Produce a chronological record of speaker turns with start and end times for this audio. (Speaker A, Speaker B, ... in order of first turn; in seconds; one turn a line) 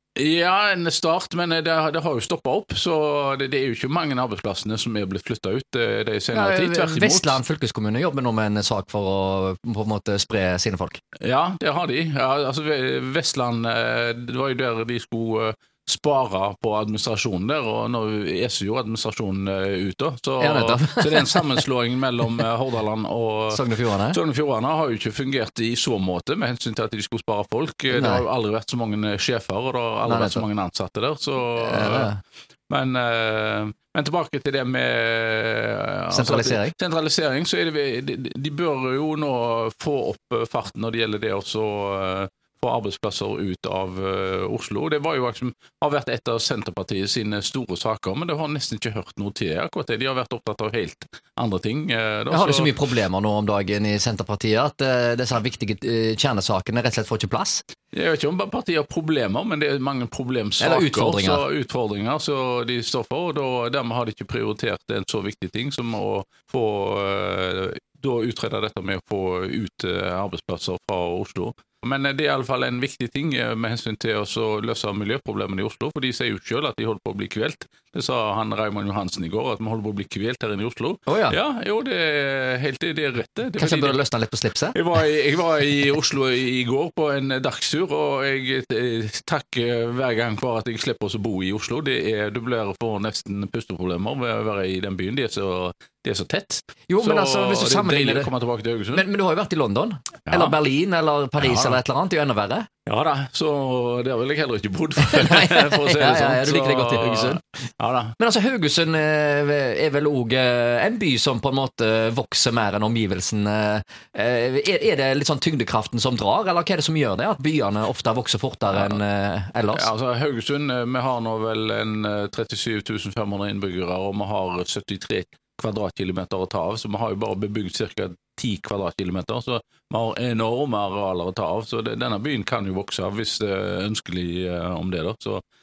Speaker A: 0.1-7.4
Speaker B: 6.3-11.0
Speaker A: 11.2-32.1
Speaker B: 20.4-21.6
Speaker B: 23.5-24.2
Speaker B: 27.9-28.2
Speaker B: 30.0-30.4
Speaker B: 31.6-32.2
Speaker A: 32.7-52.8
Speaker B: 36.1-36.7
Speaker B: 52.3-57.6
Speaker A: 57.9-84.0
Speaker B: 60.6-61.4
Speaker B: 81.1-81.4
Speaker B: 83.6-84.8
Speaker A: 84.7-99.0
Speaker B: 96.9-98.3
Speaker B: 98.9-102.7
Speaker A: 100.3-100.5
Speaker A: 101.4-101.8
Speaker A: 102.9-108.2
Speaker B: 105.0-107.4
Speaker B: 108.2-119.9
Speaker A: 118.7-119.0
Speaker A: 119.7-135.4